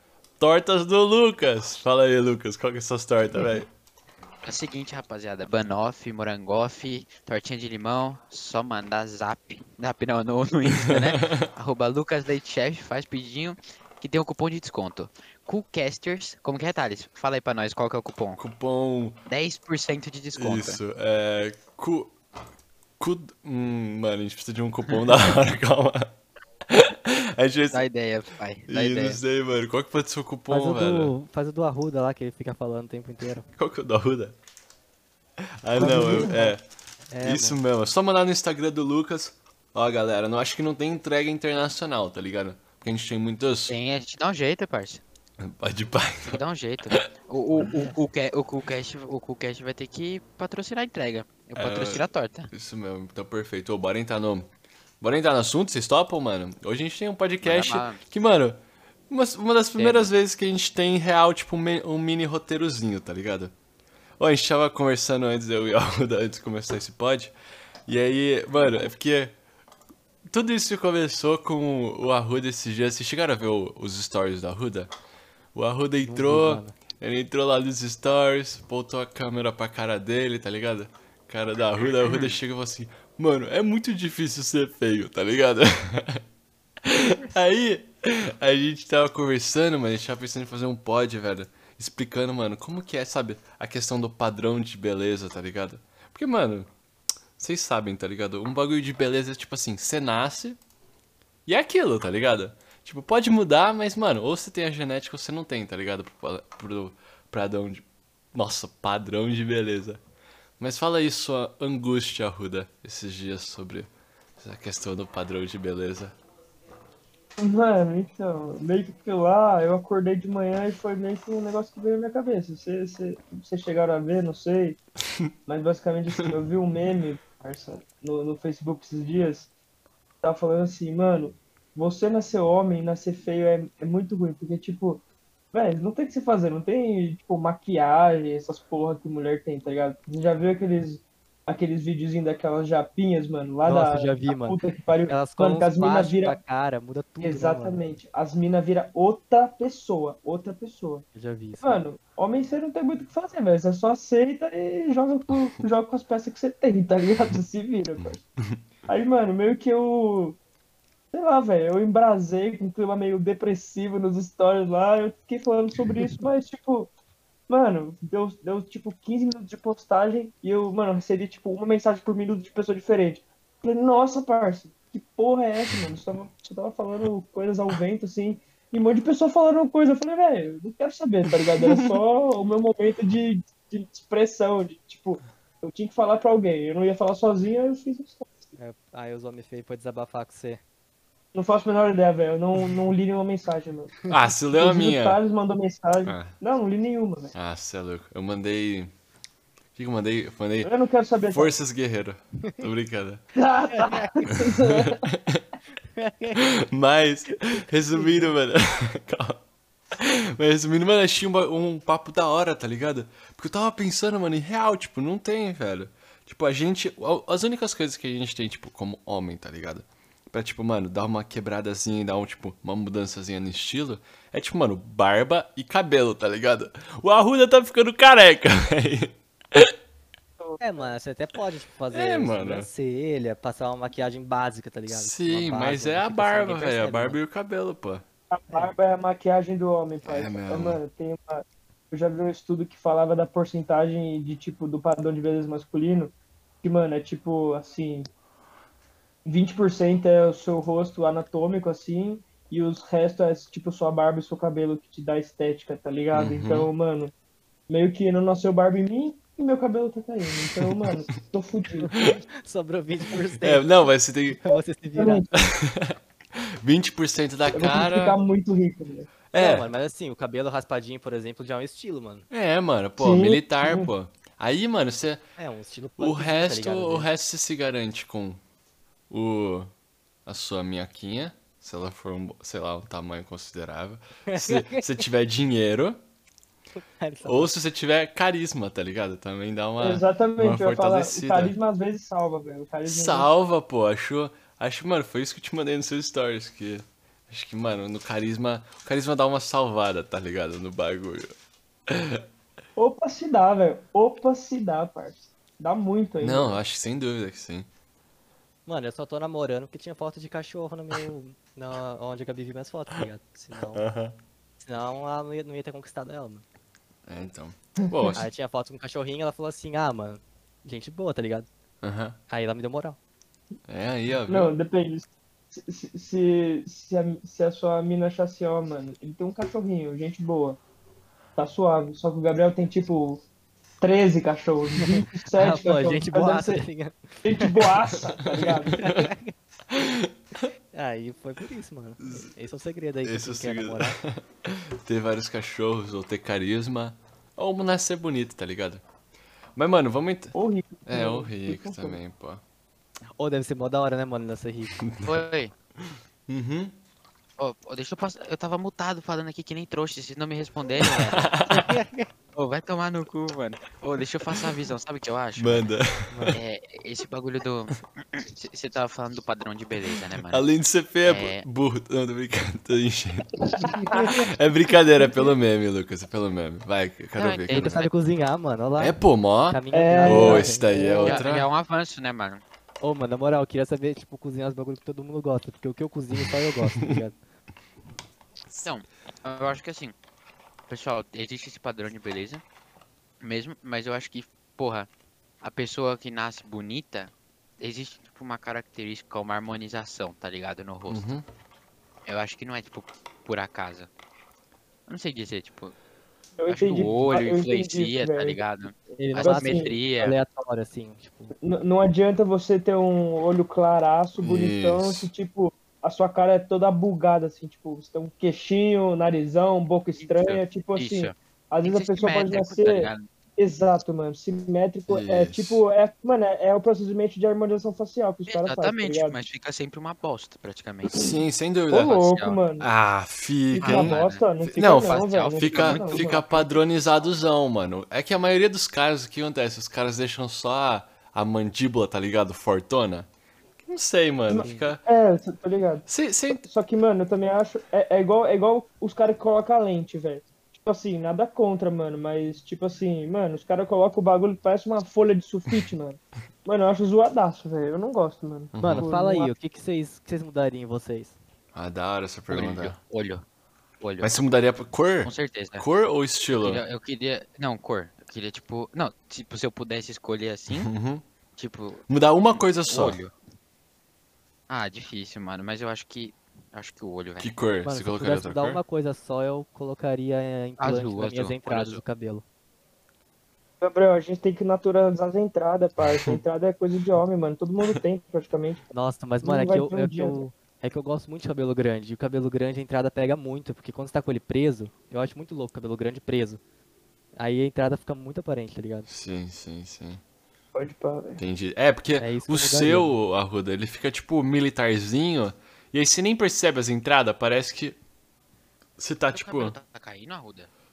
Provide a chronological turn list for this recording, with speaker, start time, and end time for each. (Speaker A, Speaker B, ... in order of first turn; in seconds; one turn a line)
Speaker A: 0.4-3.7
Speaker B: 4.4-18.4
Speaker A: 10.7-11.5
Speaker A: 18.4-19.2
Speaker B: 19.3-20.8
Speaker A: 20.3-22.1
Speaker A: 23.0-26.1
Speaker A: 26.7-27.8
Speaker B: 27.7-29.2
Speaker A: 28.7-31.1
Speaker C: 30.5-33.5
Speaker A: 33.5-34.3
Speaker A: 35.6-36.6
Speaker C: 35.8-36.5
Speaker D: 35.8-36.3
Speaker C: 37.1-37.6
Speaker A: 37.2-43.8
Speaker B: 43.7-45.0
Speaker A: 45.4-47.0
Speaker B: 46.2-52.5
Speaker A: 51.6-54.5
Speaker A: 55.0-63.5
Speaker B: 57.4-58.0
Speaker B: 59.8-60.1
Speaker A: 64.2-67.3
Speaker A: 67.8-69.3
Speaker A: 70.3-74.9
Speaker A: 75.5-86.2
Speaker C: 76.0-76.7
Speaker B: 82.0-82.4
Speaker A: 86.8-96.7
Speaker A: 97.4-100.6
Speaker A: 101.5-110.0
Speaker A: 110.6-116.2
Speaker D: 117.4-124.8
Speaker D: 125.5-129.5
Speaker D: 130.2-146.4
Speaker C: 143.6-147.8
Speaker D: 147.2-151.0
Speaker C: 151.1-151.8
Speaker D: 151.6-158.2
Speaker A: 158.0-158.6
Speaker D: 158.9-160.4
Speaker D: 161.1-166.9
Speaker D: 167.5-188.3
Speaker C: 188.6-190.6
Speaker D: 191.3-193.9
Speaker A: 194.1-195.2
Speaker D: 194.5-197.3
Speaker A: 196.0-196.3
Speaker A: 197.3-198.9
Speaker A: 199.8-200.7
Speaker D: 200.6-201.5
Speaker A: 201.3-203.2
Speaker D: 203.3-205.1
Speaker C: 203.7-204.4
Speaker A: 204.4-205.4
Speaker C: 205.9-206.4
Speaker A: 206.3-209.4
Speaker A: 209.9-229.7
Speaker D: 230.4-230.9
Speaker C: 230.6-237.2
Speaker A: 231.9-232.7
Speaker A: 234.9-238.0
Speaker D: 238.3-248.1
Speaker A: 240.0-240.8
Speaker D: 249.2-257.1
Speaker A: 256.1-256.7
Speaker D: 257.7-262.2
Speaker A: 260.6-260.9
Speaker C: 261.8-265.2
Speaker A: 263.3-264.5
Speaker D: 264.9-265.3
Speaker A: 265.3-268.1
Speaker D: 267.5-269.1
Speaker A: 269.3-269.7
Speaker C: 269.3-272.2
Speaker A: 272.3-275.2
Speaker D: 273.0-273.9
Speaker C: 275.4-277.1
Speaker A: 276.0-278.4
Speaker A: 279.1-279.7
Speaker A: 280.2-286.0
Speaker C: 284.3-285.0
Speaker C: 286.7-287.5
Speaker A: 287.2-291.5
Speaker D: 289.8-293.3
Speaker A: 292.9-301.3
Speaker A: 301.9-302.2
Speaker D: 302.8-306.6
Speaker A: 306.2-307.7
Speaker C: 308.6-313.8
Speaker A: 313.6-314.2
Speaker C: 314.6-316.4
Speaker A: 317.1-318.2
Speaker D: 317.9-318.2
Speaker C: 318.1-321.5
Speaker A: 321.8-322.2
Speaker C: 322.3-323.0
Speaker A: 323.7-324.5
Speaker D: 324.3-330.6
Speaker D: 331.4-333.2
Speaker D: 333.8-336.6
Speaker C: 334.8-337.7
Speaker D: 337.2-338.9
Speaker A: 337.9-339.1
Speaker C: 338.7-339.3
Speaker A: 339.7-340.5
Speaker C: 340.7-344.0
Speaker A: 342.0-342.3
Speaker A: 343.0-348.8
Speaker A: 349.5-350.3
Speaker D: 350.3-352.0
Speaker A: 350.9-352.4
Speaker C: 353.2-354.8
Speaker A: 354.8-355.2
Speaker B: 355.0-355.5
Speaker A: 355.8-356.8
Speaker B: 357.4-361.4
Speaker A: 360.8-361.7
Speaker C: 361.5-362.1
Speaker B: 362.3-365.6
Speaker A: 365.4-366.4
Speaker C: 366.1-366.4
Speaker B: 366.3-370.4
Speaker A: 370.3-373.5
Speaker B: 371.0-371.4
Speaker D: 373.4-374.2
Speaker C: 373.6-374.3
Speaker A: 374.1-377.8
Speaker B: 377.2-377.9
Speaker C: 377.5-381.2
Speaker A: 378.8-381.5
Speaker D: 379.7-380.8
Speaker B: 381.0-382.4
Speaker C: 382.8-387.1
Speaker A: 386.6-387.0
Speaker B: 388.6-389.9
Speaker B: 390.7-392.4
Speaker B: 393.2-394.9
Speaker B: 395.4-401.1
Speaker A: 400.9-401.2
Speaker B: 402.1-403.9
Speaker B: 404.9-405.7
Speaker D: 406.4-409.7
Speaker B: 406.5-410.2
Speaker C: 409.1-411.3
Speaker D: 411.4-429.2
Speaker A: 414.2-415.1
Speaker B: 419.9-423.1
Speaker A: 424.9-425.6
Speaker B: 428.3-431.1
Speaker A: 430.9-432.0
Speaker D: 431.7-432.7
Speaker B: 431.8-432.4
Speaker A: 432.6-434.0
Speaker D: 433.5-436.2
Speaker B: 433.6-437.2
Speaker A: 434.6-443.1
Speaker A: 443.7-444.8
Speaker D: 444.3-459.3
Speaker C: 444.4-444.7
Speaker A: 445.9-446.4
Speaker A: 458.5-458.9
Speaker C: 458.6-461.2
Speaker A: 461.5-462.8
Speaker B: 462.3-463.2
Speaker B: 463.8-464.1
Speaker A: 464.0-466.6
Speaker B: 465.0-465.6
Speaker B: 466.3-470.7
Speaker A: 470.5-471.0
Speaker B: 471.4-471.9
Speaker A: 471.9-473.0
Speaker B: 472.4-473.1
Speaker B: 474.5-477.3
Speaker A: 477.2-478.6
Speaker C: 477.6-482.2
Speaker B: 480.6-481.8
Speaker D: 483.6-488.6
Speaker A: 485.9-486.2
Speaker C: 488.7-496.4
Speaker D: 489.2-490.2
Speaker C: 497.1-498.9
Speaker A: 498.9-500.0
Speaker D: 500.5-501.2
Speaker A: 501.2-507.8
Speaker C: 502.0-502.9
Speaker A: 508.8-509.5
Speaker B: 509.1-510.5